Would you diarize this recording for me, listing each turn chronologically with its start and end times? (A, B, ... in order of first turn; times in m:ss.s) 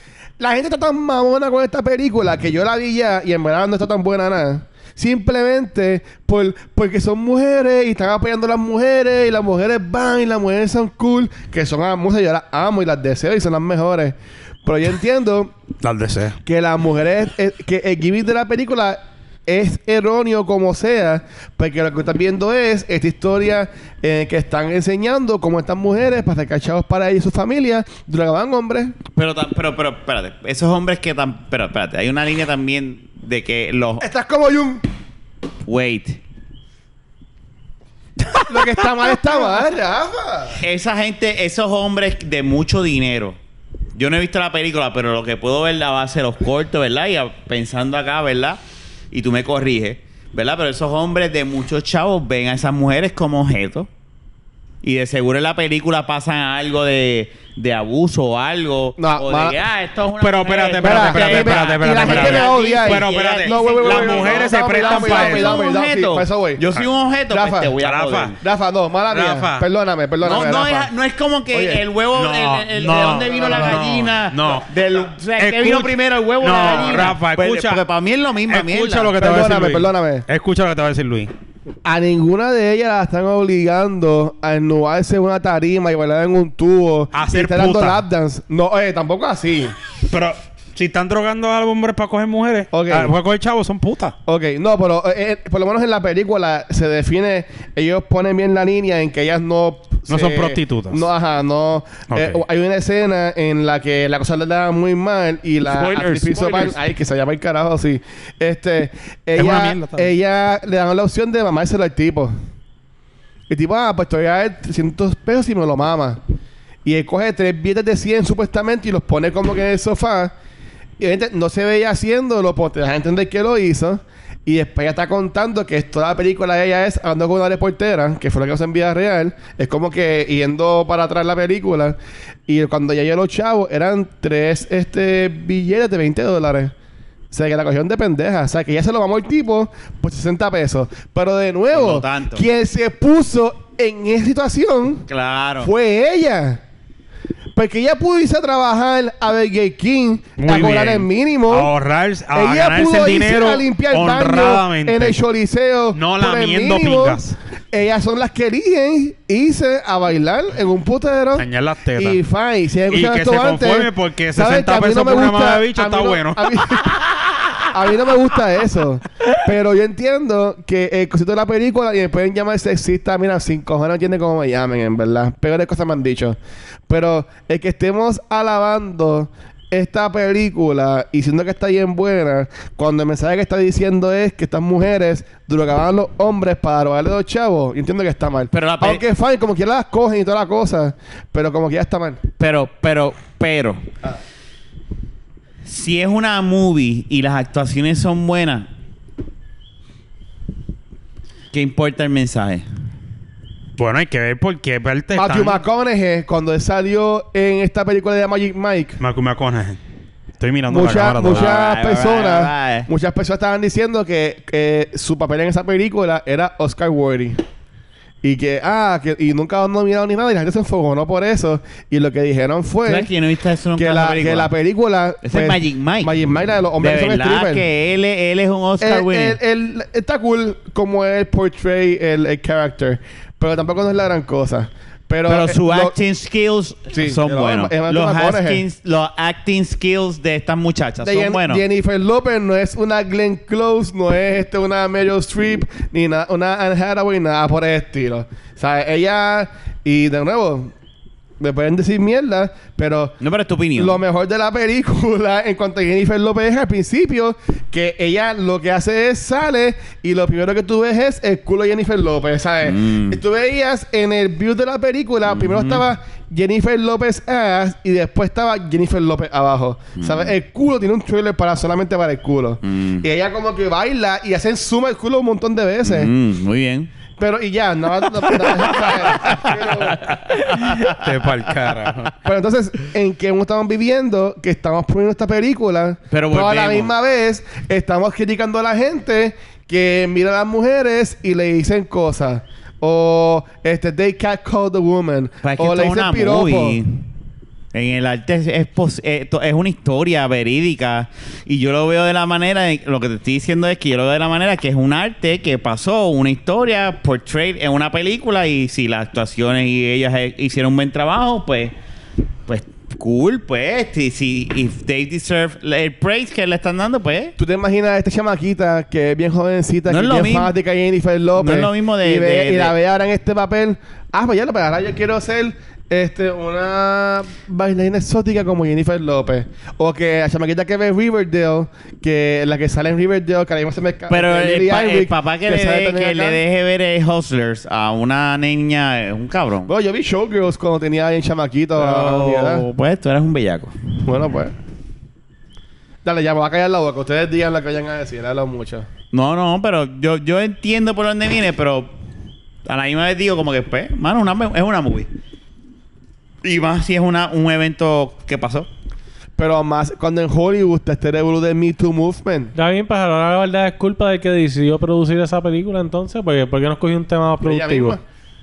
0:00.4-0:15.5 A
0:15.8-0:16.4 B
0:16.4-0:29.0 A
0:29.1-0:34.0 C
0:34.0-0:34.8 A
0:35.6-0:36.2 C
0:38.3-0:38.7 B
0:38.5-0:40.6 A
0:40.6-0:43.4 C
0:44.0-0:48.6 C
0:49.1-0:53.9 C
0:54.8-1:08.4 C
0:59.0-0:59.6 A
1:00.2-1:05.6 B
1:00.8-1:06.6 A
1:07.3-1:07.7 A
1:07.8-1:08.4 B
1:08.4-1:10.9 A
1:09.1-1:09.6 B
1:10.2-1:19.2 C
1:11.5-1:11.8 A
1:12.1-1:14.7 B
1:13.2-1:13.8 A
1:15.4-1:17.8 B
1:18.5-1:21.3 B
1:19.2-1:20.2 A
1:21.8-1:29.8 A
1:27.1-1:28.0 B
1:30.1-1:34.1 B
1:32.7-1:33.1 A
1:34.3-1:52.3 A
1:40.1-1:41.0 B
1:42.1-1:42.4 B
1:45.6-1:46.8 B
1:49.4-1:50.1 B
1:53.5-1:56.2 A
1:56.8-2:00.3 A
2:01.0-2:16.7 A
2:17.3-2:25.1 A
2:21.7-2:22.4 C
2:25.1-2:25.7 C
2:25.6-2:26.6 A
2:27.6-2:31.7 A
2:30.4-2:35.2 B
2:32.3-2:37.2 A
2:35.9-2:37.4 B
2:37.7-2:47.0 A
2:41.4-2:42.2 B
2:42.9-2:46.8 B
2:47.7-3:12.2 A
3:08.5-3:09.0 C
3:12.4-3:13.8 C
3:15.6-3:18.7 C
3:21.5-3:22.6 C
3:23.8-3:25.6 B
3:25.2-3:29.0 A
3:29.0-3:29.8 B
3:30.4-3:31.5 B
3:30.7-3:37.4 A
3:31.2-3:32.9 C
3:38.2-3:43.1 A
3:42.9-3:44.5 C
3:43.8-3:47.6 A
3:45.2-3:46.1 C
3:46.8-3:49.4 C
3:48.8-3:56.0 A
3:55.3-4:01.6 C
3:56.9-3:58.6 A
4:01.0-4:10.7 A
4:11.4-4:13.1 A
4:13.2-4:14.0 C
4:13.8-4:36.1 A
4:22.6-4:23.2 C
4:25.3-4:25.8 C
4:30.0-4:30.3 C
4:32.6-4:33.0 C
4:35.8-4:36.9 C
4:37.2-4:40.1 A
4:38.3-4:41.9 C
4:40.3-4:42.1 B
4:42.2-4:56.8 A
4:46.1-4:46.9 C
4:55.4-4:57.0 C
4:57.7-5:11.7 C
5:12.5-5:17.4 C
5:17.4-5:36.4 A
5:19.9-5:20.5 C
5:21.4-5:22.7 C
5:34.1-5:39.7 C
5:39.6-5:42.6 A
5:41.8-5:43.8 C
5:44.1-5:44.5 A
5:46.0-5:48.9 A
5:49.1-5:51.9 C
5:52.6-5:55.1 C
5:56.4-5:58.7 C
5:59.4-6:02.5 A
6:02.6-6:08.0 D
6:07.4-6:08.0 A